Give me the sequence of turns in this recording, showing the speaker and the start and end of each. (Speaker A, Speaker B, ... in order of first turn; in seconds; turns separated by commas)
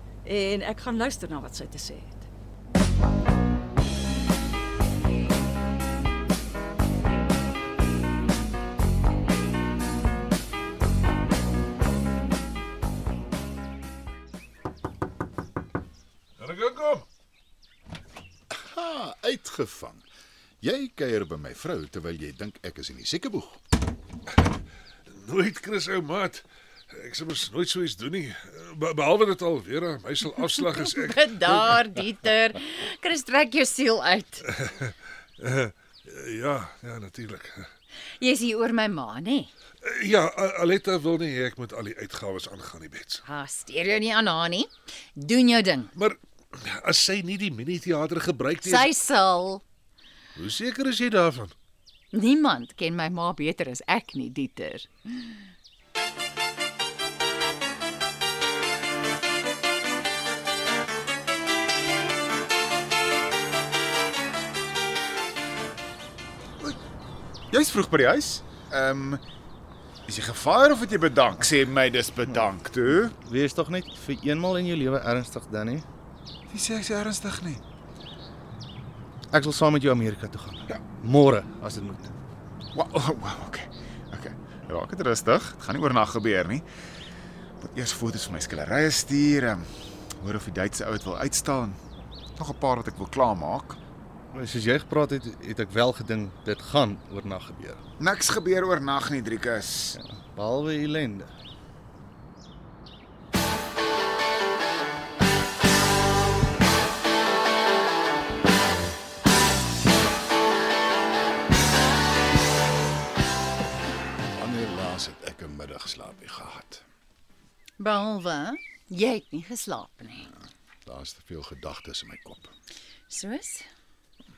Speaker A: 0.2-2.2, Speaker B: 16.4-17.0, Speaker C: 18.5-20.0, Speaker C: 20.6-23.6, Speaker B: 25.2-31.8, Speaker D: 30.5-34.4, Speaker B: 34.5-37.7, Speaker D: 38.2-39.5, Speaker B: 39.8-43.2, Speaker D: 43.2-45.9, Speaker B: 45.9-49.0, Speaker D: 48.6-49.6, Speaker B: 50.4-51.5, Speaker D: 52.1-54.9, Speaker E: 67.5-69.2, Speaker E: 70.1-73.1, Speaker F: 73.2-75.8, Speaker E: 76.5-77.6, Speaker F: 79.3-82.1, Speaker E: 82.7-86.7, Speaker E: 87.6-89.6, Speaker E: 90.2-91.8, Speaker E: 92.4-93.8, Speaker F: 94.3-97.8, Speaker E: 98.0-100.0, Speaker F: 99.9-101.3, Speaker C: 114.3-116.8, Speaker D: 117.8-120.3, Speaker C: 120.8-122.5, Speaker D: 123.1-123.6